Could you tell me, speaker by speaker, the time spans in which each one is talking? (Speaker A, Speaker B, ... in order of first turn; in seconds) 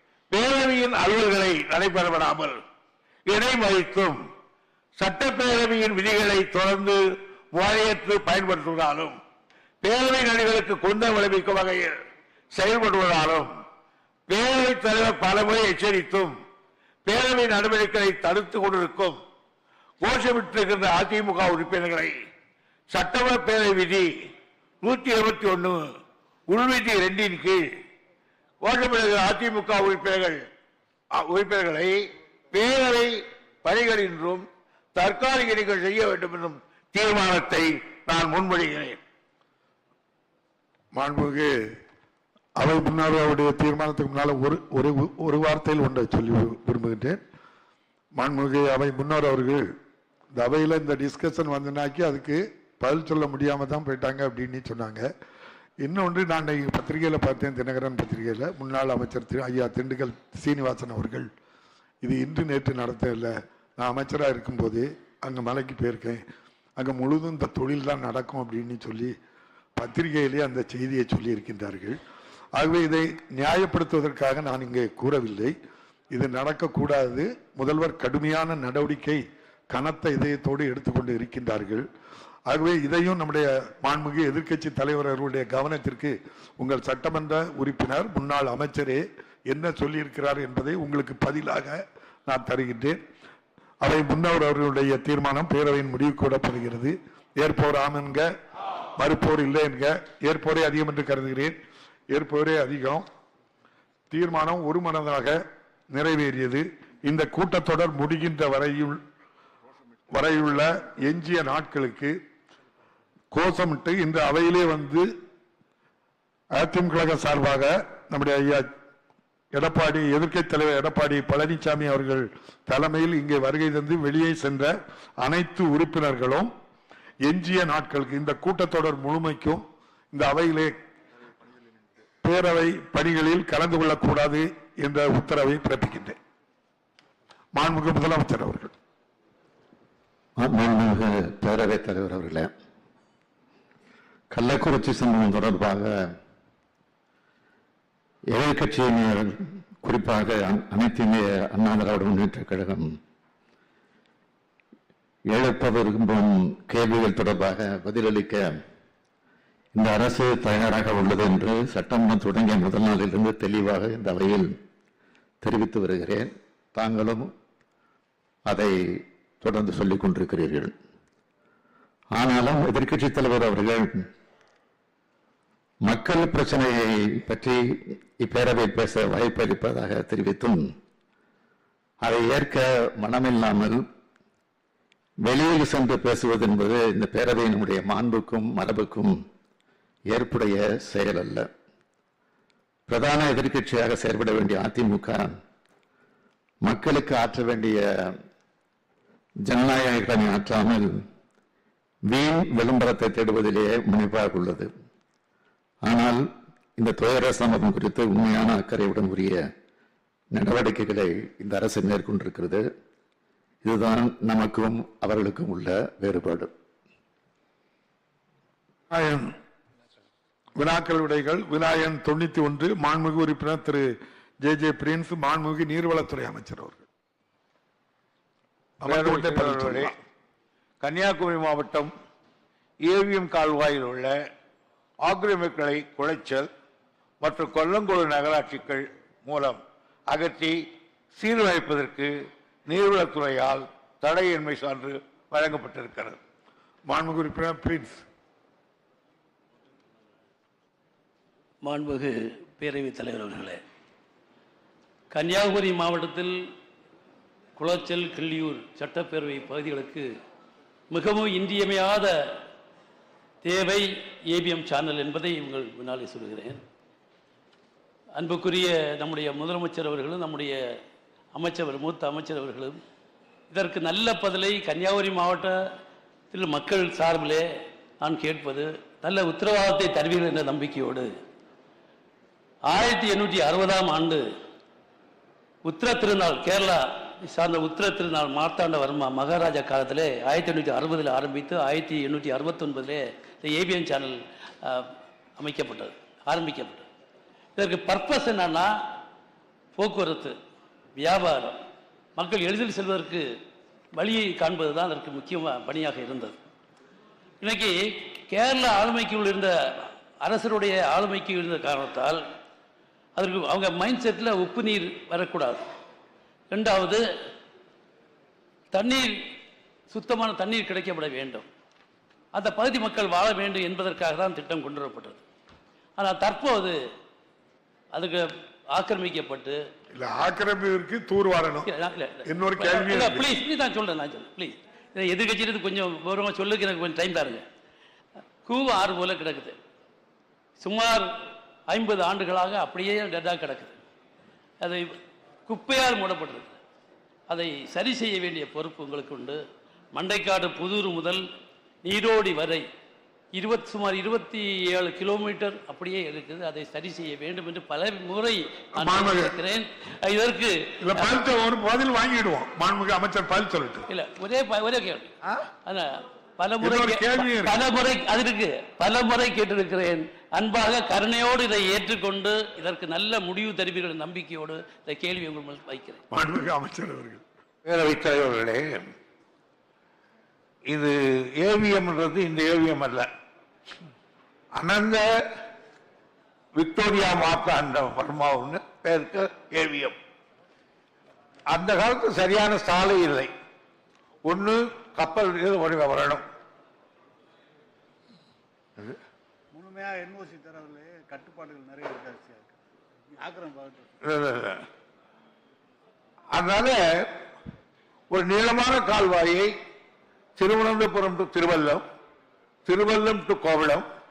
Speaker A: 0.3-2.6, 3.3-4.2, 5.0-7.0, 7.5-9.2, 9.8-11.9, 12.5-13.5, 14.3-16.3, 17.1-19.2, 20.0-22.1, 22.9-24.1, 24.8-25.8, 26.5-27.6, 28.6-30.4, 31.2-39.0, 228.9-229.9, 230.8-231.9, 232.8-234.1, 235.0-236.5, 237.2-240.6, 241.1-246.2, 377.7-378.9, 380.7-383.1, 384.6-385.1, 386.6-389.9, 391.5-393.3, 394.2-396.2, 404.0-404.6, 406.3-406.8, 408.1-409.5, 410.4-411.8, 412.7-413.9
Speaker B: 41.0-41.5, 42.6-47.2, 48.2-49.6, 50.4-55.1, 55.8-61.3, 62.0-66.2, 66.8-69.1, 69.8-72.0, 72.6-75.5, 76.1-81.8, 82.5-93.0, 93.8-98.3, 99.0-101.6, 102.1-103.1, 104.1-105.4, 105.9-109.0, 110.1-112.2, 113.3-115.1, 116.6-118.7, 119.5-126.5, 127.3-130.7, 132.2-136.2, 137.6-138.7, 218.9-219.3, 220.6-223.9, 224.4-226.8, 228.8-229.9, 246.9-248.0, 330.0-331.7, 332.3-333.2, 358.8-359.3, 360.8-363.9, 366.6-367.6, 376.1-377.2
Speaker C: 140.4-142.5, 144.3-146.2, 148.3-153.0, 155.3-158.6, 159.7-164.6, 165.4-167.3, 168.5-170.7, 172.1-174.1, 175.9-180.7, 182.0-183.9, 185.2-189.2, 190.1-191.5, 192.9-195.3, 196.7-198.2, 199.4-201.0, 202.1-204.7, 205.8-209.5, 210.3-212.7, 213.6-216.5
Speaker D: 251.7-253.6, 255.1-256.4, 257.6-260.1, 260.9-262.4, 263.4-266.6, 268.2-270.6, 271.4-272.8, 273.5-275.6, 276.3-277.4, 278.0-281.1, 282.7-284.2, 285.7-296.9, 297.6-298.7, 299.8-300.4, 301.0-301.6, 302.2-303.3, 304.0-306.4, 307.4-312.2, 313.2-315.6, 316.5-317.0, 318.7-319.1, 319.9-321.5, 322.4-325.2, 326.0-326.8, 327.9-329.6, 331.7-337.4, 338.5-339.6, 340.6-341.1, 341.7-343.8, 344.6-345.0, 345.5-346.6, 347.3-349.4, 349.9-351.2, 351.8-352.6, 353.4-361.2, 363.9-365.1, 365.7-376.0
Speaker E: 399.6-402.5, 403.2-403.8